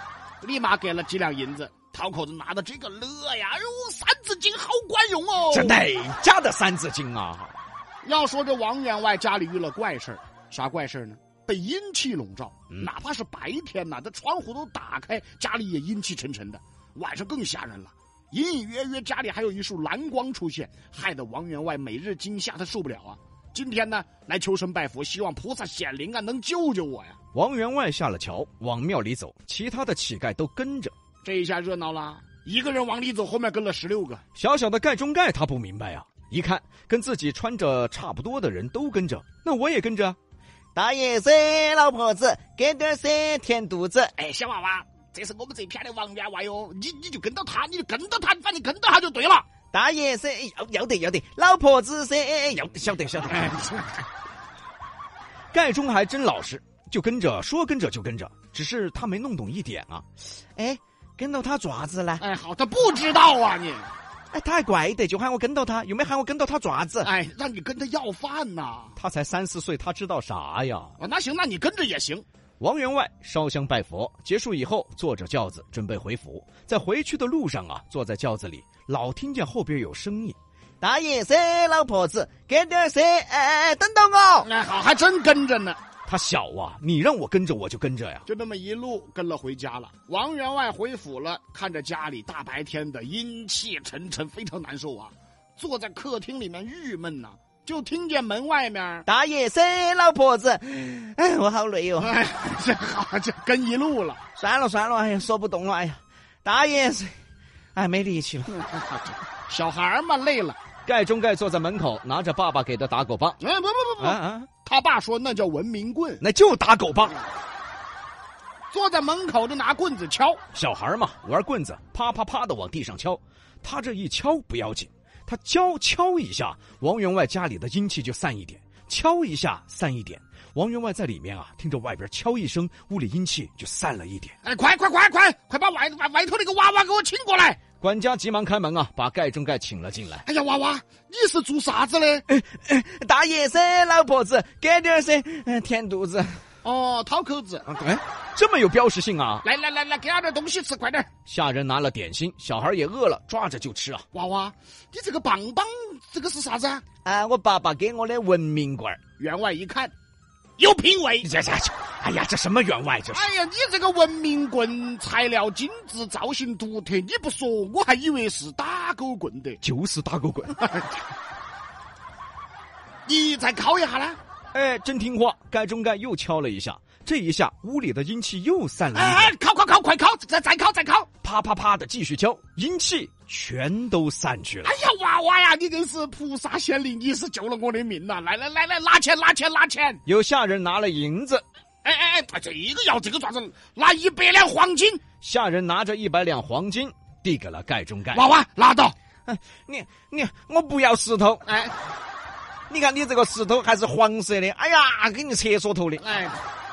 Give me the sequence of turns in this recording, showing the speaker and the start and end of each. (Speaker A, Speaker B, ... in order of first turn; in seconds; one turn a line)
Speaker A: 0.4-5.8
Speaker B: 5.5-7.6
Speaker A: 8.0-27.2
Speaker B: 27.3-30.9
Speaker A: 31.2-34.2
Speaker B: 34.4-40.2
Speaker B: 40.8-44.1
Speaker A: 44.1-49.5
Speaker B: 49.7-53.6
Speaker A: 53.3-54.0
Speaker B: 55.5-62.2
Speaker A: 62.2-63.9
Speaker B: 64.3-67.1
Speaker A: 67.0-69.0
Speaker B: 69.0-70.9
Speaker A: 71.0-72.2
Speaker B: 72.6-84.5
Speaker A: 84.4-85.8
Speaker B: 86.0-88.2
Speaker A: 88.3-99.0
Speaker B: 99.1-102.1
Speaker A: 102.0-104.2
Speaker B: 104.4-107.1
Speaker B: 107.8-108.6
Speaker A: 108.5-110.6
Speaker B: 110.8-113.4
Speaker A: 113.4-116.2
Speaker B: 114.0-114.5
Speaker B: 116.2-117.2
Speaker A: 118.7-120.4
Speaker B: 120.5-134.4
Speaker A: 134.4-137.6
Speaker B: 137.8-140.2
Speaker A: 140.2-142.2
Speaker B: 142.3-146.4
Speaker A: 146.6-147.6
Speaker B: 147.7-149.4
Speaker A: 149.4-151.1
Speaker B: 151.2-154.0
Speaker A: 154.1-156.8
Speaker B: 157.0-159.0
Speaker A: 159.2-159.9
Speaker A: 160.6-161.3
Speaker B: 161.2-163.3
Speaker A: 163.1-169.6
Speaker B: 169.6-170.6
Speaker A: 170.6-170.8
Speaker A: 173.1-174.2
Speaker B: 174.5-179.3
Speaker A: 178.9-181.1
Speaker B: 181.2-184.8
Speaker A: 184.6-190.0
Speaker B: 190.1-191.4
Speaker A: 191.8-195.0
Speaker B: 195.2-198.3
Speaker A: 198.1-198.9
Speaker B: 199.2-201.4
Speaker A: 201.4-201.8
Speaker B: 202.7-206.0
Speaker A: 206.0-206.4